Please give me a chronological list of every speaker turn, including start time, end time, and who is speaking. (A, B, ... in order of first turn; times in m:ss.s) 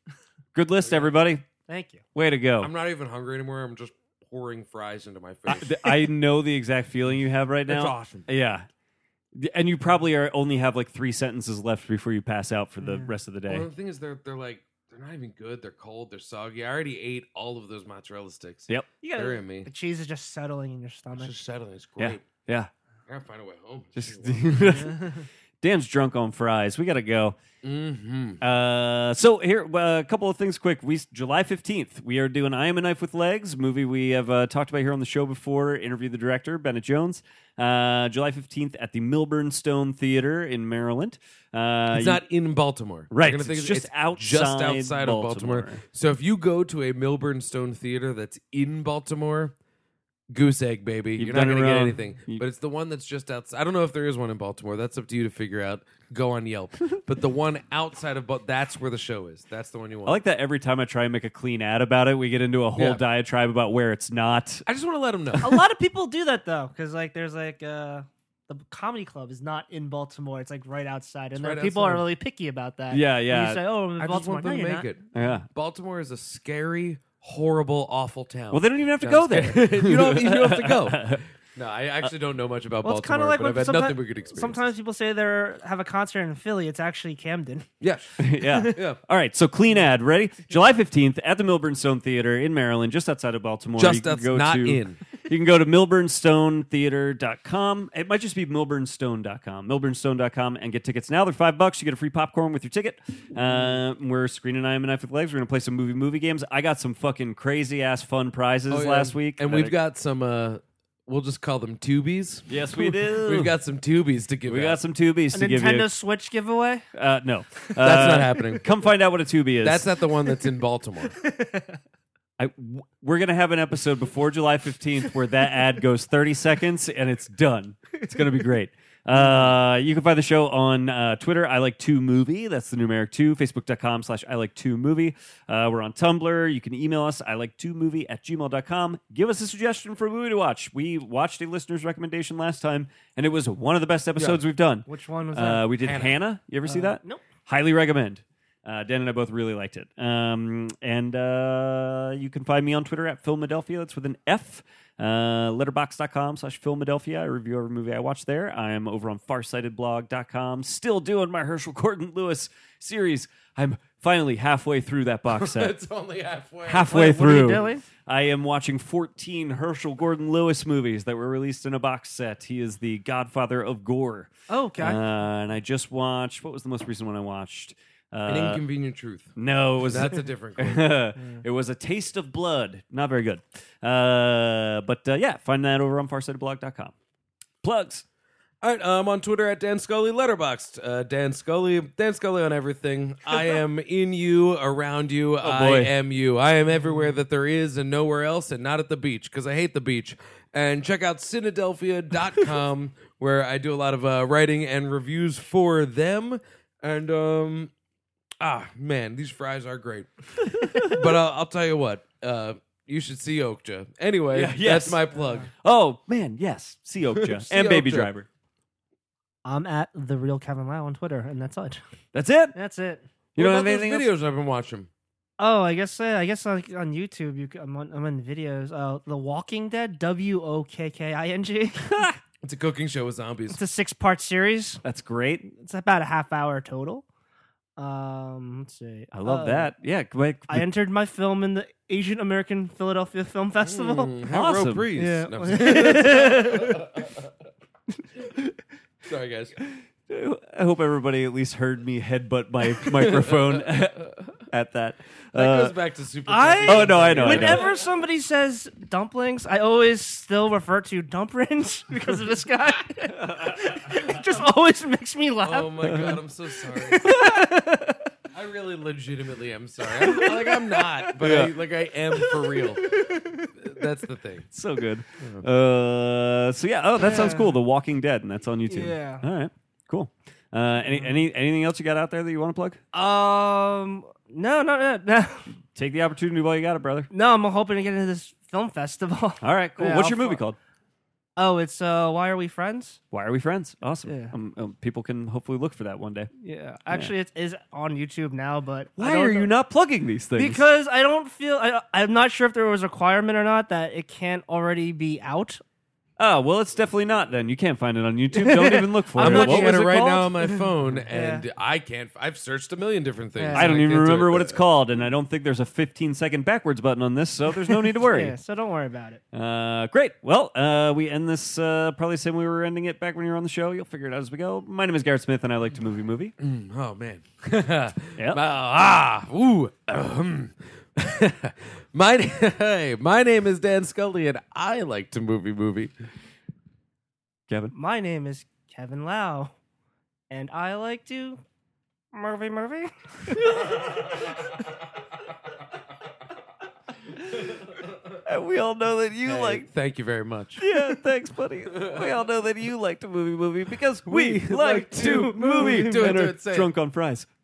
0:00.5-0:01.4 A
0:00.8-0:01.1 B
0:01.7-0:02.0 C
0:02.1-0:02.7 A
0:02.6-0:05.9 B
0:05.4-0:08.7 A
0:07.7-0:08.3 B
0:09.3-0:13.7 A
0:12.8-0:13.1 C
0:13.5-0:19.7 B
0:19.0-0:21.3 C
0:21.2-0:22.3 B
0:22.0-0:22.7 A
0:23.1-0:24.8 B
0:24.0-0:27.4 A
0:24.9-0:25.2 C
0:27.6-0:28.4 B
0:28.4-0:42.2 A
0:41.9-0:49.5 B
0:43.1-0:45.8 A
0:50.3-1:00.2 B
0:51.2-0:52.4 A
1:00.0-1:04.6 A
1:02.8-1:03.0 B
1:04.6-1:05.6 B
1:05.4-1:14.9 C
1:11.3-1:12.1 B
1:12.9-1:13.6 A
1:14.0-1:24.7 B
1:15.1-1:15.5 A
1:18.5-1:21.2 A
1:22.8-1:27.7 C
1:27.8-1:29.0 B
1:28.2-1:49.8 A
1:28.4-1:28.8 C
1:33.8-1:35.0 B
1:48.7-1:54.8 B
1:52.5-1:53.5 A
1:54.4-1:55.9 A
1:55.3-1:56.8 C
1:56.9-1:59.9 A
1:57.8-1:58.6 B
1:59.6-2:01.2 B
2:01.2-2:01.8 C
2:02.4-2:45.7 A
2:09.2-2:09.5 C
2:24.9-2:25.7 C
2:25.8-2:26.2 B
2:26.7-2:27.2 C
2:45.3-2:47.6 B
2:46.6-2:58.6 A
2:46.9-2:47.8 C
2:54.5-2:55.0 C
2:58.3-3:01.0 B
2:59.4-3:06.9 A
3:07.6-3:08.0 A
3:08.6-3:27.7 B
3:15.4-3:15.9 A
3:28.4-3:35.5 B
3:30.5-3:31.0 A
3:34.3-3:35.0 A
3:35.5-3:38.3 A
3:37.1-3:38.1 B
3:39.4-3:41.8 C
3:42.1-3:42.6 A
3:42.5-3:43.0 C
3:43.4-3:44.9 B
3:43.4-3:44.1 A
3:45.4-3:52.1 C
3:51.9-3:52.2 A
3:52.4-3:53.6 B
3:53.5-3:54.8 C
3:54.8-3:55.4 A
3:55.4-3:57.0 C
3:57.8-3:59.7 C
3:59.1-4:00.7 A
4:00.5-4:04.1 C
4:03.6-4:07.3 B
4:04.3-4:04.9 A
4:05.0-4:06.9 C
4:08.0-4:08.4 C
4:09.0-4:09.6 B
4:09.7-4:15.7 A
4:12.9-4:14.2 B
4:15.3-4:17.8 B
4:16.3-4:25.9 C
4:16.6-4:17.7 A
4:23.3-4:23.9 A
4:25.4-4:27.1 B
4:25.8-4:26.2 A
4:26.8-4:28.1 C
4:28.3-4:34.5 B
4:30.0-4:30.5 C
4:31.2-4:31.5 A
4:32.8-4:33.5 C
4:34.5-4:42.8 A
4:37.0-4:37.6 C
4:38.7-4:39.2 C
4:42.9-4:45.5 C
4:45.7-4:47.1 A
4:47.1-4:50.4 C
4:49.4-4:50.6 A
4:51.4-4:53.0 C
4:53.1-4:56.3 A
4:54.0-4:54.3 C
4:56.4-4:59.5 C
4:59.0-5:00.6 A
5:00.3-5:05.6 C
5:06.2-5:09.8 A
5:08.4-5:10.6 C
5:09.2-5:14.6 B
5:11.1-5:11.4 C
5:13.4-5:13.7 C
5:13.5-5:18.3 A
5:17.7-5:19.2 C
5:19.3-5:26.3 A
5:26.4-5:35.9 B
5:28.1-5:28.4 A
5:37.5-5:37.7 A
5:37.7-5:39.5 C
5:40.3-5:41.4 C
5:42.1-5:44.3 C
5:48.2-5:49.7 A
5:49.2-5:50.6 B
5:50.6-5:57.3 A
5:51.7-5:52.1 B
5:54.1-5:56.7 B
5:54.6-5:56.1 C